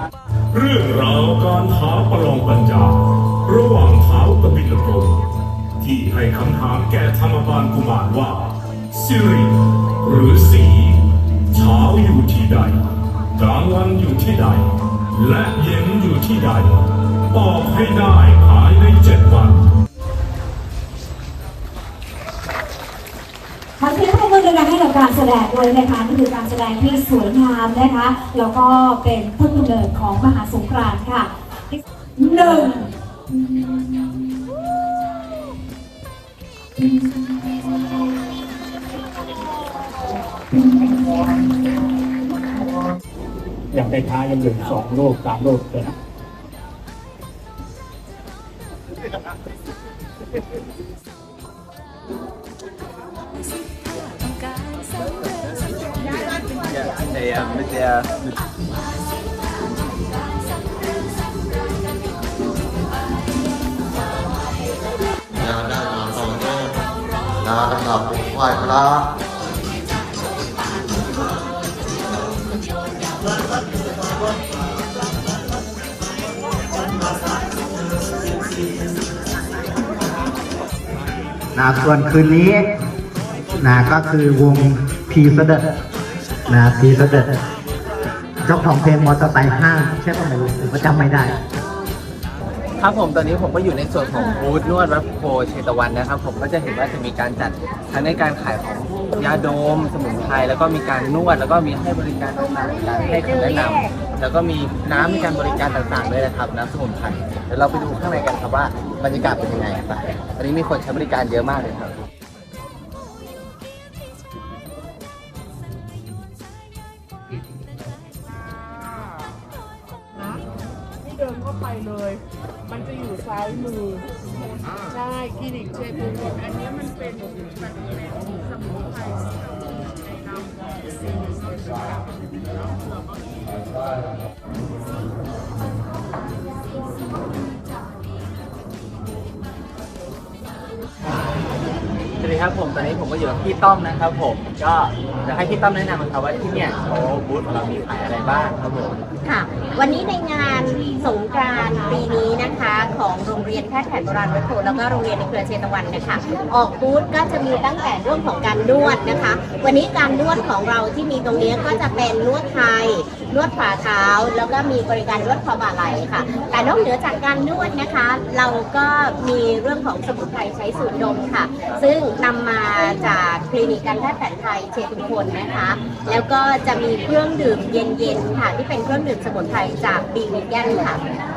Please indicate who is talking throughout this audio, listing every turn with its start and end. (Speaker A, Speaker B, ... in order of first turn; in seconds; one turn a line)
Speaker A: 0.6-2.9
Speaker A: 3.5-5.2
Speaker A: 5.8-11.0
Speaker A: 11.5-12.7
Speaker A: 13.4-14.6
Speaker A: 15.2-16.7
Speaker A: 17.3-19.6
Speaker B: 23.8-34.6
Speaker B: 36.8-37.5
Speaker C: 43.7-46.0
Speaker D: 57.0-57.9
Speaker E: 65.4-66.7
Speaker E: 67.4-69.1
Speaker F: 81.5-82.7
Speaker F: 83.6-85.7
Speaker F: 86.5-87.4
Speaker F: 88.5-91.4
Speaker D: 92.8-111.9
Speaker G: 121.0-124.1
Speaker G: 124.9-133.0
Speaker D: 142.2-149.0
Speaker H: 149.2-181.1